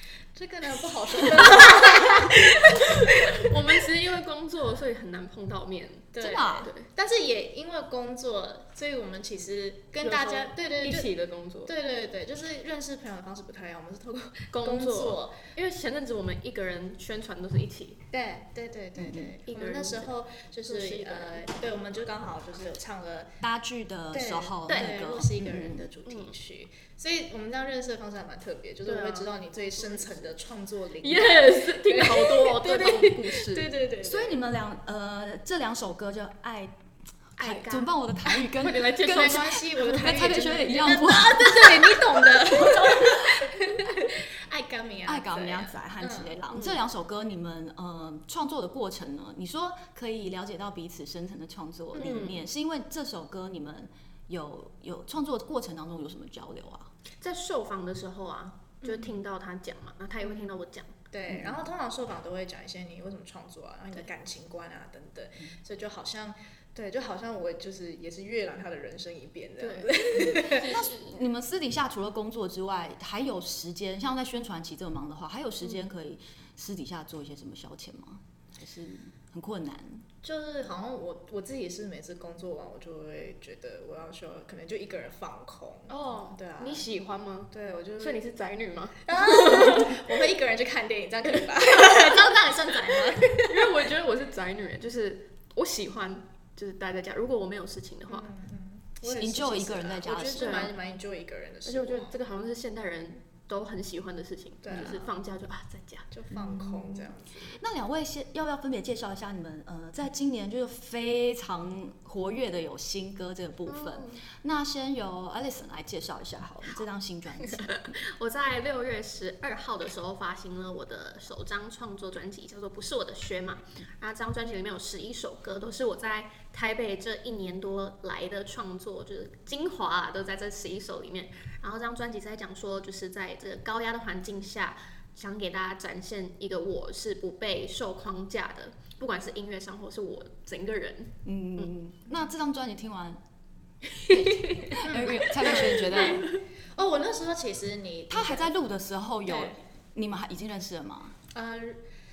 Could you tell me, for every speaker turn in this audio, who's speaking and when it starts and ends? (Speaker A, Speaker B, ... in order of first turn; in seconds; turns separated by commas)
Speaker A: 0.3-3.8, Speaker B: 1.6-6.9, Speaker A: 6.1-11.1, Speaker C: 6.2-6.7, Speaker B: 10.0-11.7, Speaker A: 11.7-15.4, Speaker B: 14.5-18.0, Speaker A: 18.1-23.4, Speaker C: 18.9-19.4, Speaker B: 19.5-20.1, Speaker B: 20.7-21.4, Speaker C: 23.4-25.8, Speaker A: 24.1-34.4, Speaker B: 24.7-25.0, Speaker B: 26.1-26.3, Speaker B: 28.8-30.2, Speaker B: 31.0-33.7, Speaker C: 34.0-36.8, Speaker B: 37.4-41.7, Speaker C: 37.4-43.4, Speaker A: 39.0-46.4, Speaker C: 45.1-56.9, Speaker B: 46.5-46.8, Speaker B: 51.9-52.4, Speaker A: 52.0-52.3, Speaker B: 57.2-60.9, Speaker A: 58.8-59.2, Speaker A: 60.2-60.5, Speaker A: 61.1-70.7, Speaker C: 61.3-61.6, Speaker B: 69.6-71.2, Speaker C: 70.3-80.0, Speaker A: 80.2-86.8, Speaker B: 85.9-90.0, Speaker A: 87.5-88.2, Speaker A: 89.1-93.8, Speaker B: 93.4-98.3, Speaker A: 98.1-102.2, Speaker C: 99.1-100.7, Speaker B: 100.3-100.7, Speaker B: 101.7-106.1, Speaker A: 104.6-105.1, Speaker A: 106.1-107.6, Speaker C: 106.3-118.0, Speaker B: 113.7-114.2, Speaker B: 117.4-141.7, Speaker C: 141.2-143.2, Speaker B: 144.0-146.4, Speaker C: 144.0-146.3, Speaker A: 144.8-148.5, Speaker C: 148.1-151.2, Speaker A: 149.2-149.6, Speaker A: 151.3-151.8